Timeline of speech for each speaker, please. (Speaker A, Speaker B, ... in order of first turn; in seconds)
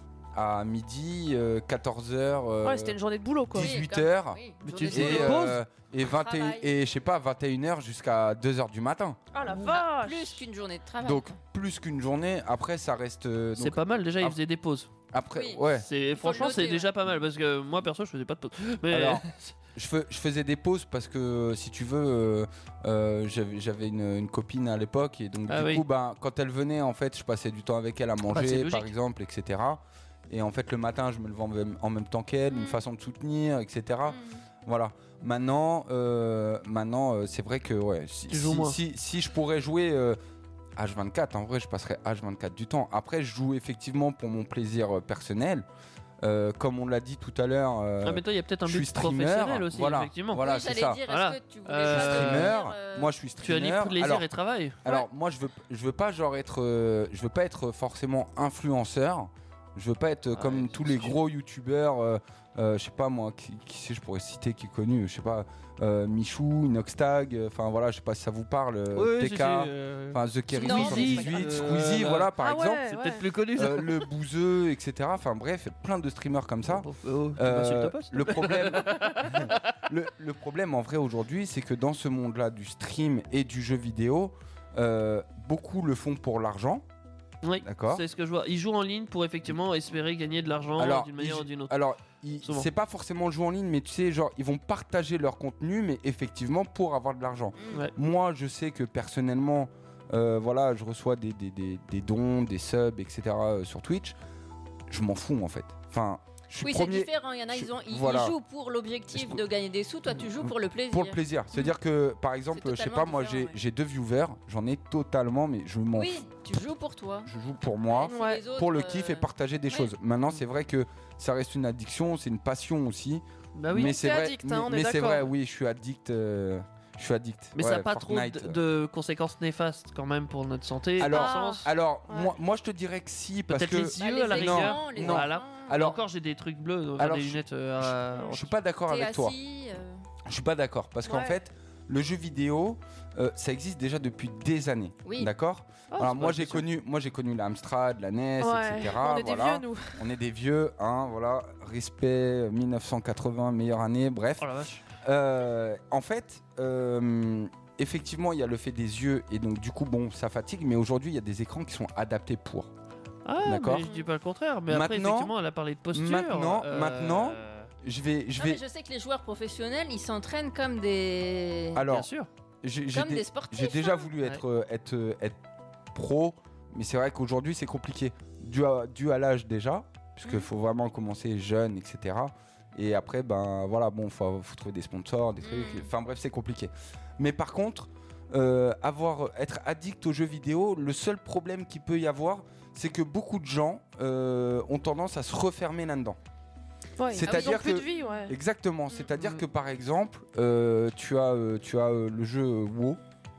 Speaker A: 0.3-3.0, 3.5-9.2, 11.0-14.4, 15.1-15.9, 18.9-40.2, 40.8-45.7, 46.2-51.0, 51.8-54.3, 54.8-72.9, 73.5-86.8, 87.6-88.0, 90.8-104.2, 104.9-108.4, 109.1-109.4, 110.1-116.2, 117.3-128.6, 131.0-136.0, 137.0-139.3, 140.3-154.5, 155.0-162.7, 163.4-163.9, 164.7-165.3, 165.9-168.6, 171.8-172.1, 172.6-175.4, 175.9-196.2, 197.1-203.0
Speaker B: 2.6-3.7, 9.3-10.5, 72.4-73.2, 118.1-118.4, 123.7-125.3, 131.1-132.3, 141.1-141.4, 148.4-150.0, 197.0-198.3
Speaker C: 3.6-6.7, 9.7-11.4, 15.4-15.6, 16.1-16.9, 32.5-32.8, 34.1-34.4, 50.4-53.1, 70.5-71.7, 97.6-97.9, 106.6-111.7, 112.5-113.6, 115.9-117.3, 117.9-119.9, 134.0-135.9, 138.9-140.0, 145.1-145.3, 168.4-171.8, 172.9-174.1, 185.4-185.9
Speaker D: 4.6-5.6, 13.6-14.9, 15.8-19.5, 25.5-25.9, 28.3-28.9, 38.3-38.8, 48.0-50.5, 51.1-52.5, 53.4-54.8, 60.3-61.2, 68.9-72.3, 72.9-74.1, 76.7-79.8, 87.4-91.7, 123.6-124.0, 127.6-131.7, 133.5-138.6, 145.9-146.7, 154.4-154.8, 163.2-167.7, 171.9-172.3, 199.2-199.4